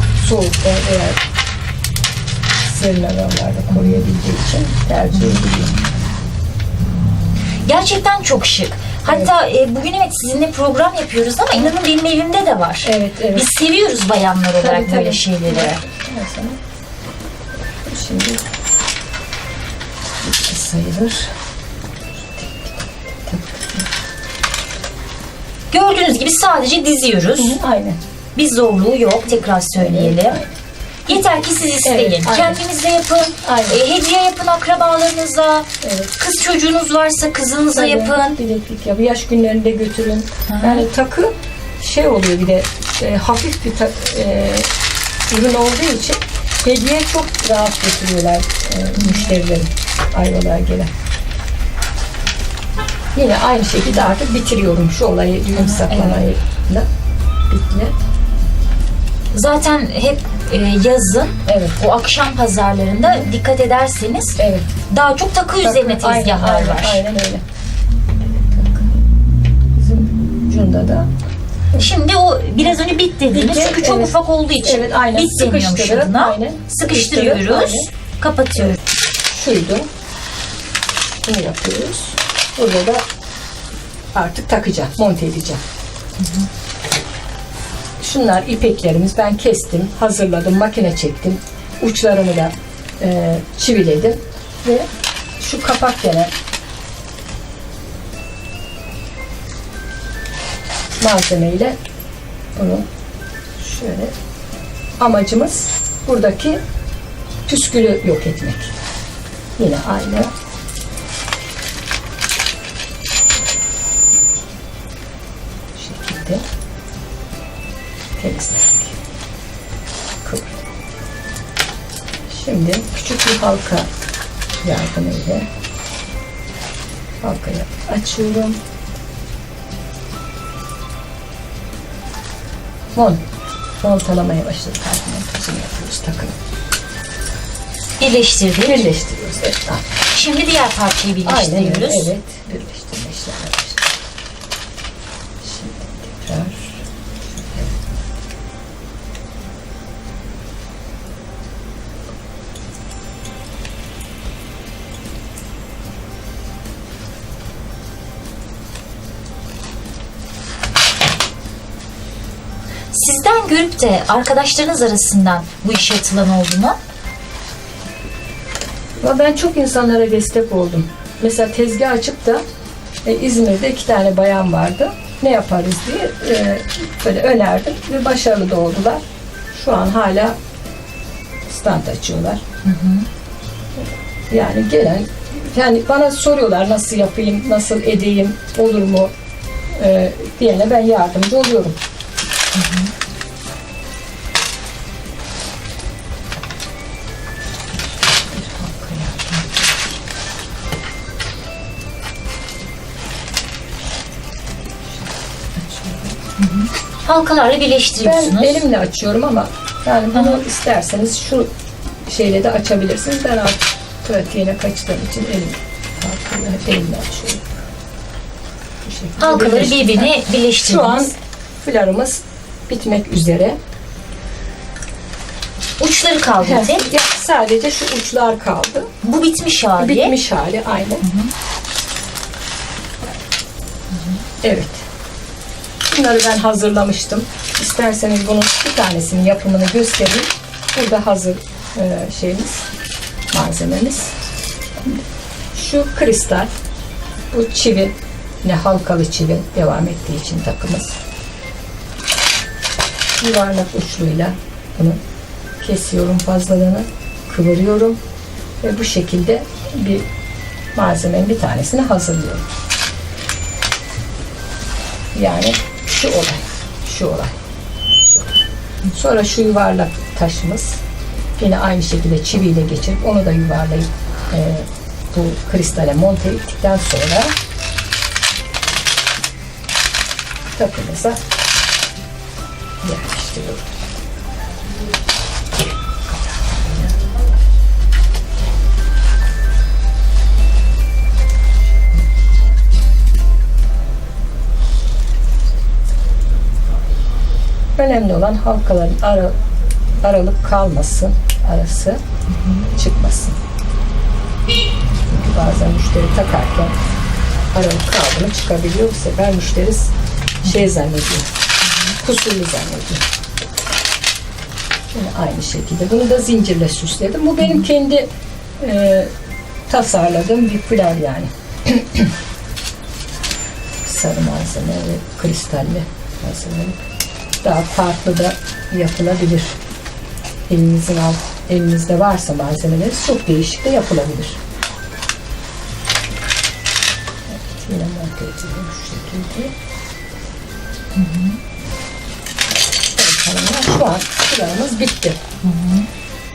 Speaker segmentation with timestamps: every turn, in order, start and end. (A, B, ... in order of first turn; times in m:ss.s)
0:00.2-0:01.2 A
0:02.6-0:05.8 A
0:07.6-0:15.8 B
0:12.8-0:13.5 A
0:14.6-0:16.6 A
0:17.8-0:18.4 A
0:20.2-0:21.3 A
0:22.2-0:23.8 A
0:25.7-0:27.6 B
0:27.4-0:28.0 A
0:28.3-0:30.4 B
0:29.8-0:30.4 A
0:31.0-0:38.4 B
0:31.8-0:32.6 A
0:33.4-0:33.8 A
0:35.8-0:36.1 A
0:37.7-0:44.7 A
0:40.5-0:40.9 B
0:45.3-0:50.9 A
0:49.0-0:49.3 B
0:53.1-0:56.8 A
0:55.5-0:56.3 B
0:57.5-0:57.9 A
0:59.3-1:04.4 B
1:01.4-1:01.8 A
1:04.4-1:04.7 A
1:04.9-1:07.0 B
1:05.6-1:07.4 A
1:08.4-1:08.9 A
1:09.8-1:11.0 A
1:11.8-1:18.8 B
1:13.3-1:17.9 A
1:19.2-1:19.8 A
1:21.2-1:23.0 A
1:24.1-1:25.6 A
1:28.0-1:34.8 A
1:35.4-1:36.3 A
1:41.0-1:41.8 A
1:42.6-1:42.8 A
1:43.6-1:44.1 A
1:45.0-1:46.6 A
1:47.5-1:48.7 A
1:49.6-1:50.3 A
1:55.7-1:56.4 A
1:58.2-1:59.0 A
2:00.2-2:00.6 A
2:02.3-2:03.9 A
2:04.6-2:05.5 A
2:07.2-2:08.6 A
2:12.9-2:13.2 A
2:13.8-2:16.3 A
2:18.0-2:18.9 B
2:18.6-2:19.8 A
2:20.1-2:22.1 B
2:21.2-2:23.9 A
2:25.4-2:26.8 A
2:27.4-2:27.7 A
2:42.9-2:46.8 B
2:49.0-2:52.4 A
2:53.0-3:00.4 A
3:01.5-3:02.4 A
3:02.6-3:03.0 B
3:04.3-3:09.1 A
3:09.8-3:11.8 A
3:12.5-3:12.9 B
3:18.3-3:19.5 A
3:25.6-3:26.1 A
3:26.4-3:28.6 B
3:28.0-3:31.5 A
3:30.1-3:30.4 B
3:32.0-3:37.4 A
3:38.8-3:43.6 A
3:39.2-3:41.1 B
3:45.8-3:46.9 B
3:46.4-3:48.9 A
3:49.0-3:50.1 B
3:49.8-3:51.0 A
3:51.0-3:51.3 B
3:54.4-3:54.8 A
3:55.9-4:02.7 A
4:03.3-4:04.2 A
4:05.5-4:06.5 A
4:07.3-4:11.0 A
4:13.2-4:15.0 A
4:15.6-4:18.0 A
4:18.6-4:20.0 A
4:20.7-4:22.4 A
4:25.1-4:27.3 A
4:28.0-4:28.4 A
4:28.9-4:30.8 A
4:31.4-4:37.3 A
4:40.5-4:41.2 A
4:42.8-4:43.6 A
4:46.1-4:47.0 A
4:57.8-4:59.4 A
5:00.0-5:02.0 A
5:02.7-5:03.4 A
5:05.1-5:06.7 A
5:07.5-5:09.9 A
5:10.4-5:11.2 A
5:12.0-5:13.0 A
5:14.9-5:18.1 A
5:18.6-5:19.1 A
5:19.7-5:22.1 A
5:23.8-5:26.8 A
5:27.4-5:29.6 A
5:30.5-5:34.4 A
5:37.3-5:39.5 A
5:40.9-5:41.4 B
5:43.0-5:45.2 A
5:45.4-5:45.8 B